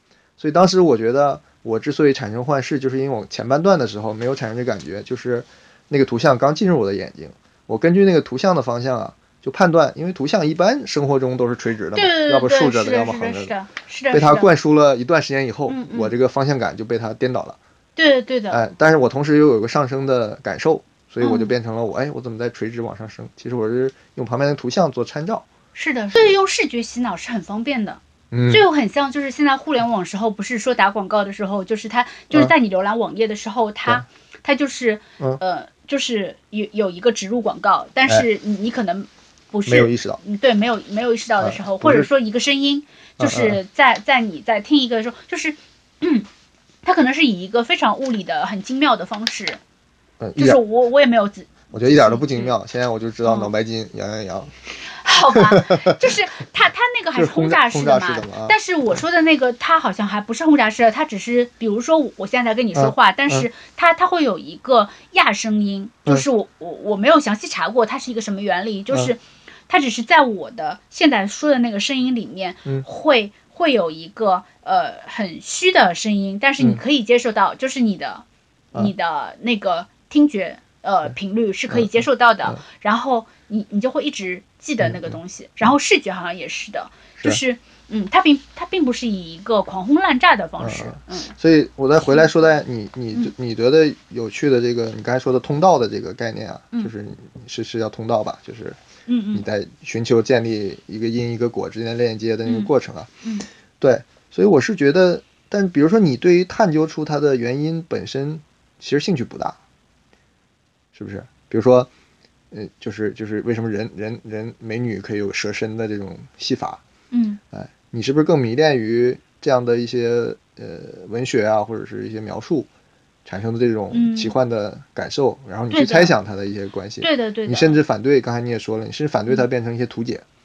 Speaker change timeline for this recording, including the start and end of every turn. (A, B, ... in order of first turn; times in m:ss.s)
0:00.4-0:13.5 A
0:11.9-0:14.5 B
0:14.1-0:17.6 A
0:15.7-0:16.1 B
0:18.0-0:18.6 B
0:18.5-0:25.4 A
0:21.2-0:21.5 B
0:25.7-0:46.3 B
0:28.3-0:28.6 A
0:39.6-0:40.2 A
0:41.4-0:42.1 A
0:43.2-0:43.6 A
0:46.8-0:49.6 B
0:50.2-0:50.6 A
0:50.4-0:52.5 B
0:51.7-0:54.5 A
0:53.2-0:53.5 B
0:55.0-1:31.3 B
0:55.3-0:55.9 A
0:57.1-0:58.5 A
1:02.7-1:03.5 A
1:21.7-1:22.6 A
1:24.8-1:25.2 A
1:30.6-1:38.8 A
1:39.1-1:39.4 B
1:39.3-1:43.1 A
1:42.4-1:42.7 B
1:43.8-1:49.6 A
1:50.9-1:51.9 A
1:52.5-1:56.8 A
1:57.1-1:57.4 B
1:57.5-2:02.7 A
2:03.2-2:10.2 A
2:03.9-2:04.4 B
2:05.7-2:06.1 B
2:07.0-2:07.8 B